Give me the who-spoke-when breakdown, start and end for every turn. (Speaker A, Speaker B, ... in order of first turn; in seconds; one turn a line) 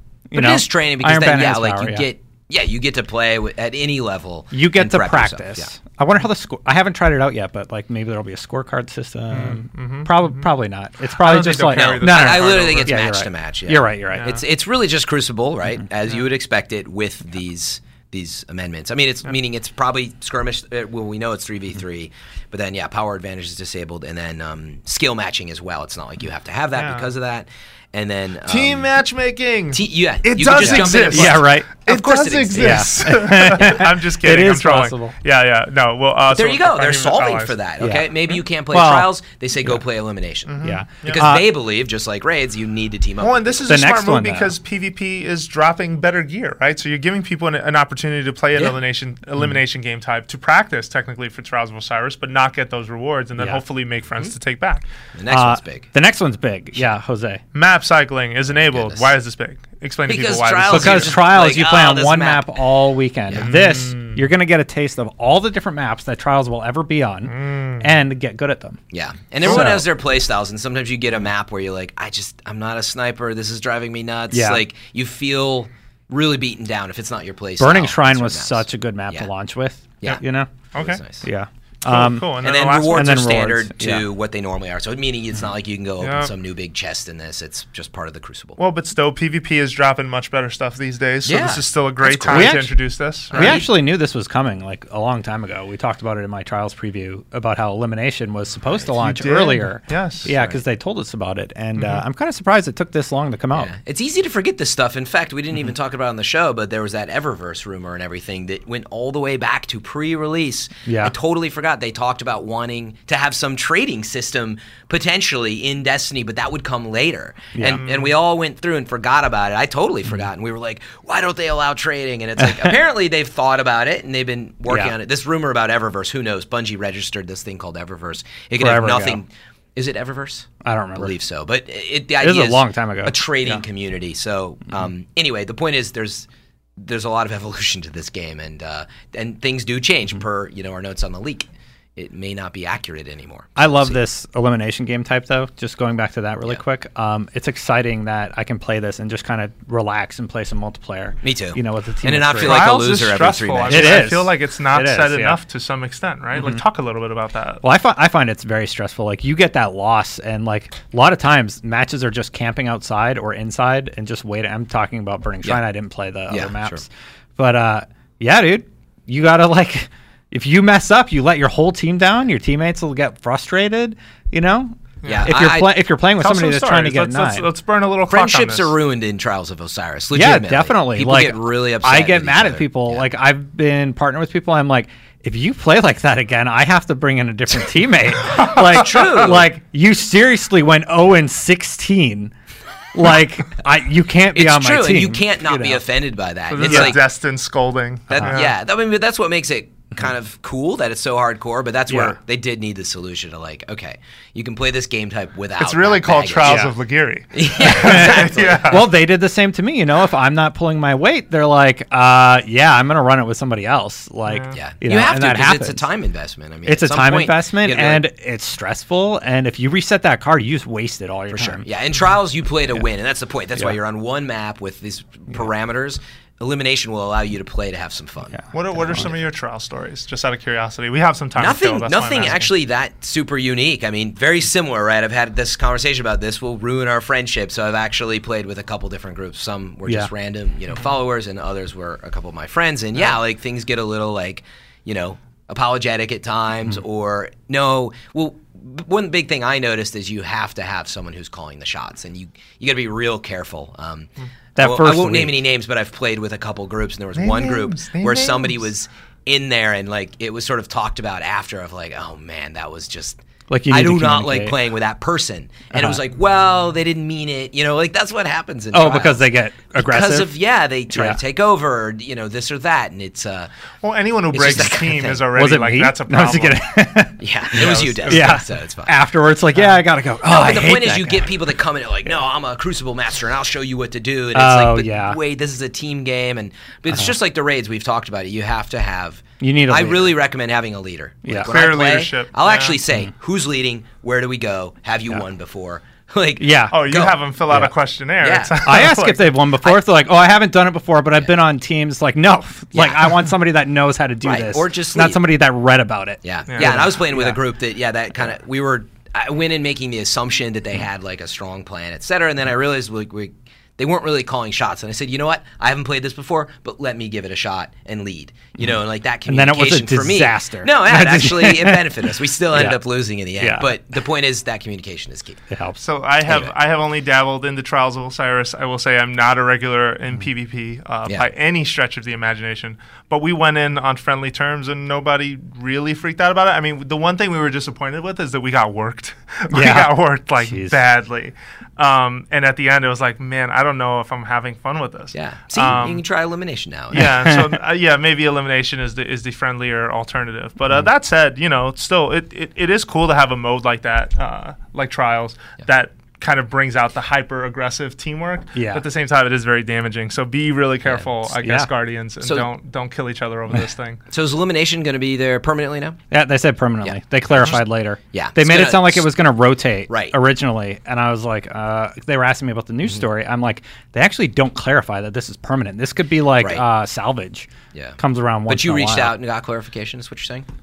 Speaker A: 0.3-2.1
Speaker B: 0.3-5.7
Speaker A: 4.5-14.4
Speaker C: 9.3-10.5
Speaker C: 11.2-13.0
Speaker B: 11.7-28.9
Speaker C: 14.1-14.4
Speaker C: 26.8-27.1
Speaker C: 28.5-37.6
Speaker B: 29.7-32.9
Speaker A: 30.6-31.7
Speaker A: 32.5-35.1
Speaker B: 36.3-43.7
Speaker A: 37.8-38.2
Speaker A: 38.7-39.1
Speaker C: 40.5-41.3
Speaker A: 40.6-41.5
Speaker C: 43.2-54.9
Speaker A: 43.7-44.5
Speaker A: 53.4-53.6
Speaker B: 55.1-55.9
Speaker A: 55.3-57.4
Speaker C: 57.5-61.2
Speaker B: 58.6-59.1
Speaker B: 60.1-62.5
Speaker A: 60.7-68.8
Speaker C: 63.4-64.2
Speaker C: 67.3-67.9
Speaker B: 68.9-79.3
Speaker A: 69.4-69.8
Speaker A: 74.3-74.6
Speaker A: 77.6-80.5
Speaker C: 80.7-81.0
Speaker B: 80.8-81.2
Speaker A: 81.2-82.3
Speaker C: 81.8-83.2
Speaker B: 82.4-88.6
Speaker A: 82.9-84.0
Speaker C: 86.0-86.3
Speaker C: 88.6-93.6
Speaker B: 91.2-92.6
Speaker A: 92.3-92.7
Speaker B: 93.3-93.7
Speaker A: 93.3-103.7
Speaker C: 99.0-100.3
Speaker B: 100.2-100.6
Speaker C: 101.8-102.0
Speaker B: 103.5-144.0
Speaker A: 110.8-111.1
Speaker A: 117.5-117.8
Speaker C: 117.6-118.1
Speaker A: 122.4-122.8
Speaker A: 128.6-129.2
Speaker A: 130.6-131.1
Speaker A: 132.2-133.6
Speaker A: 143.6-152.7
Speaker B: 151.2-154.1
Speaker C: 152.4-157.6
Speaker A: 153.7-155.4
Speaker A: 156.3-156.6
Speaker A: 157.6-177.5
Speaker B: 166.3-166.8
Speaker C: 175.0-175.3
Speaker B: 175.0-175.8
Speaker C: 176.2-178.7
Speaker B: 178.1-183.1
Speaker A: 180.1-192.3
Speaker B: 188.6-189.5
Speaker A: 192.9-195.8
Speaker B: 194.3-197.0
Speaker C: 196.5-198.5
Speaker A: 196.7-197.0
Speaker B: 198.1-206.7
Speaker A: 201.9-202.2
Speaker C: 205.6-208.9
Speaker A: 206.4-206.7
Speaker B: 207.3-208.7
Speaker A: 207.6-215.8
Speaker C: 214.2-214.6
Speaker B: 214.5-218.0
Speaker A: 216.6-221.7
Speaker B: 221.3-228.4
Speaker A: 228.3-229.1
Speaker C: 228.5-232.5
Speaker B: 231.3-273.5
Speaker A: 254.6-255.4
Speaker C: 257.1-258.6
Speaker A: 263.5-264.6
Speaker A: 265.7-266.0
Speaker A: 268.7-270.3
Speaker A: 270.9-271.2
Speaker C: 273.8-276.6
Speaker B: 274.3-275.3
Speaker A: 275.4-281.3
Speaker B: 277.2-278.9
Speaker C: 277.5-278.4
Speaker B: 280.2-297.2
Speaker A: 284.3-285.2
Speaker A: 289.4-290.1
Speaker A: 291.2-291.5
Speaker C: 291.4-292.8
Speaker A: 296.4-296.8
Speaker C: 296.7-299.4
Speaker B: 298.2-298.7
Speaker A: 298.6-307.4
Speaker B: 302.7-303.2
Speaker B: 304.2-305.2
Speaker B: 306.2-325.4
Speaker C: 306.5-306.9
Speaker A: 319.3-322.8
Speaker A: 323.4-323.7
Speaker A: 325.5-325.8
Speaker C: 325.8-346.0
Speaker B: 326.2-326.5
Speaker A: 339.5-340.8
Speaker B: 345.1-347.1
Speaker C: 346.9-364.0
Speaker A: 346.9-347.5
Speaker A: 358.5-358.8
Speaker B: 360.8-361.1
Speaker A: 361.4-361.7
Speaker B: 362.2-362.5
Speaker B: 364.1-366.0
Speaker A: 366.1-379.1
Speaker B: 366.8-369.1
Speaker B: 369.9-370.1
Speaker B: 377.7-380.5